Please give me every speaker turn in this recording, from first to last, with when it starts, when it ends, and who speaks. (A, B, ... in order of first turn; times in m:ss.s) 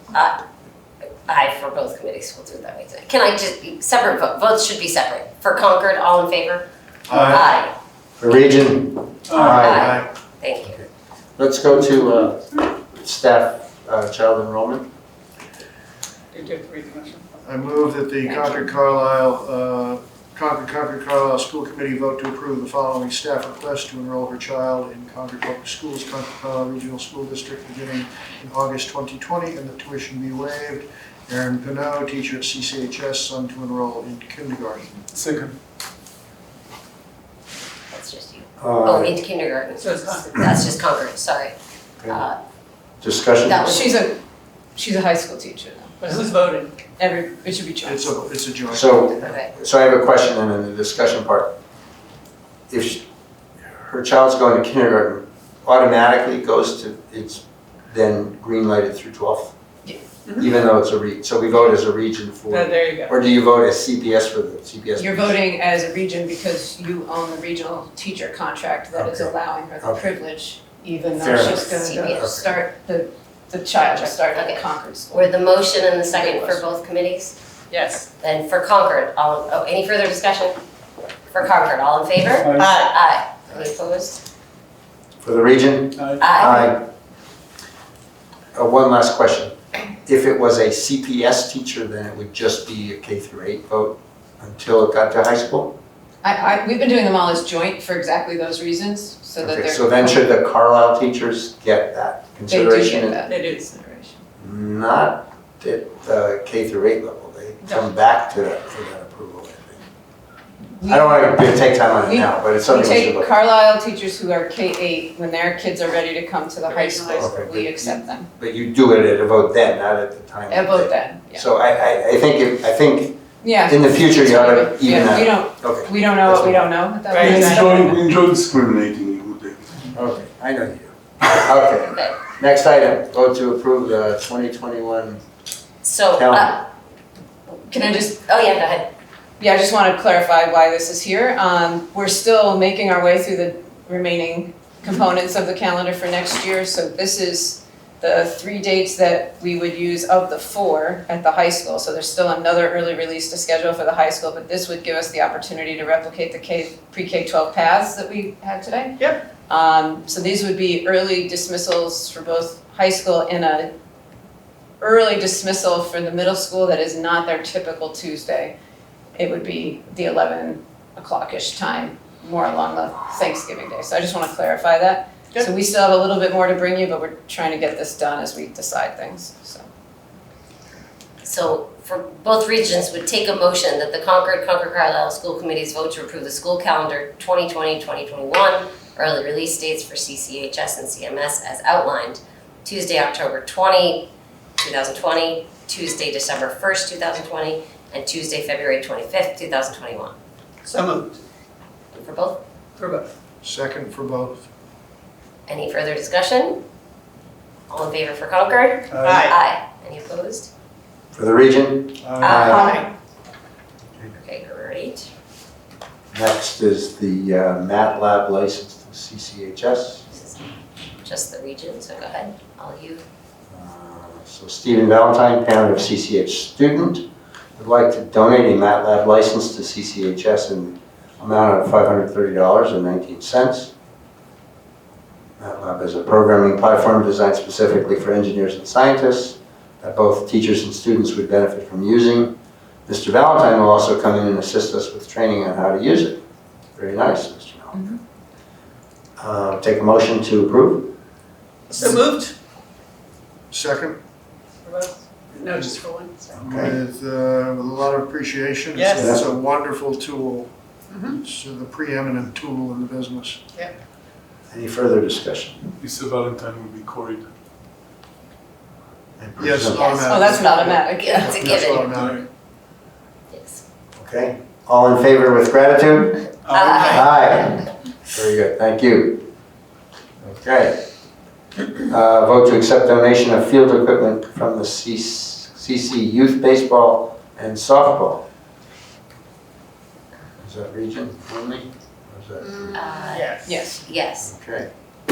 0:00.1-0:00.4 A
0:01.2-0:07.7 A
0:07.1-0:07.5 B
0:08.2-0:10.0 C
0:09.3-0:09.7 D
0:09.4-0:10.8 A
0:09.6-0:10.0 B
0:11.4-0:14.9 C
0:16.3-0:17.2 E
0:17.4-0:34.9 B
0:18.2-0:18.7 F
0:35.1-0:35.5 D
0:37.9-0:41.5 A
0:38.6-0:39.2 C
0:39.8-0:40.5 E
0:42.0-0:42.4 A
0:43.0-0:43.8 C
0:43.4-0:44.0 A
0:43.6-0:44.2 F
0:44.8-0:46.0 F
0:46.0-0:46.7 E
0:47.0-0:48.2 F
0:47.8-0:49.1 B
0:48.7-0:51.6 C
0:49.2-0:49.5 A
0:52.7-0:53.0 C
0:53.7-0:59.5 C
1:00.3-1:05.4 C
1:02.5-1:03.2 E
1:05.0-1:15.2 F
1:08.9-1:10.0 C
1:11.2-1:12.5 C
1:11.4-1:12.2 A
1:13.8-1:17.4 A
1:16.2-1:16.6 F
1:17.7-1:18.0 E
1:18.2-1:20.6 A
1:21.3-1:24.2 A
1:22.4-1:22.8 D
1:22.6-1:22.9 E
1:25.2-1:26.8 C
1:26.2-1:26.7 A
1:28.5-1:35.7 C
1:36.2-1:39.8 F
1:39.4-1:43.2 C
1:42.5-1:43.5 F
1:43.3-1:44.2 E
1:44.4-1:49.8 C
1:50.8-1:51.5 F
1:50.9-1:53.3 C
1:52.0-1:58.3 F
1:56.6-1:57.5 E
1:57.1-2:06.7 C
2:00.5-2:01.5 F
2:03.4-2:08.0 F
2:07.1-2:07.4 E
2:07.2-2:09.9 D
2:09.9-2:15.2 C
2:15.8-2:16.7 A
2:16.1-2:16.6 C
2:17.7-2:18.9 A
2:19.4-2:43.7 F
2:44.8-2:48.5 F
2:49.2-2:59.7 F
3:01.2-3:20.1 A
3:20.6-3:21.1 E
3:21.9-3:22.4 A
3:22.8-3:23.1 E
3:23.4-3:24.5 B
3:25.5-3:26.6 A
3:27.7-3:30.5 A
3:29.0-3:29.4 E
3:31.1-3:32.8 C
3:32.0-3:32.4 B
3:32.2-3:32.8 A
3:32.5-3:32.8 F
3:34.1-3:35.1 A
3:36.1-3:40.1 C
3:40.1-3:40.4 A
3:41.0-3:43.0 A
3:43.5-3:47.0 C
3:47.6-3:53.7 C
3:55.4-4:02.3 C
4:02.8-4:06.2 C
4:06.8-4:07.8 C
4:09.2-4:10.9 C
4:11.7-4:12.3 E
4:13.5-4:14.0 B
4:14.6-4:16.3 E
4:15.5-4:15.8 B
4:16.3-4:16.8 C
4:16.3-4:20.5 B
4:18.7-4:19.1 E
4:18.9-4:19.2 C
4:21.0-4:23.4 B
4:24.5-4:25.6 C
4:25.8-4:27.2 D
4:29.2-4:29.9 C
4:29.4-4:32.2 B
4:29.7-4:31.9 A
4:30.0-4:31.4 F
4:31.4-4:32.2 D
4:33.3-4:33.6 A
4:33.9-4:39.3 C
4:36.4-4:37.0 D
4:36.5-4:37.0 A
4:40.2-4:40.8 C
4:41.8-4:48.2 C
4:50.4-4:52.8 C
4:52.7-4:54.3 A
4:53.1-4:53.5 E
4:53.5-4:53.8 F
4:54.2-4:54.7 C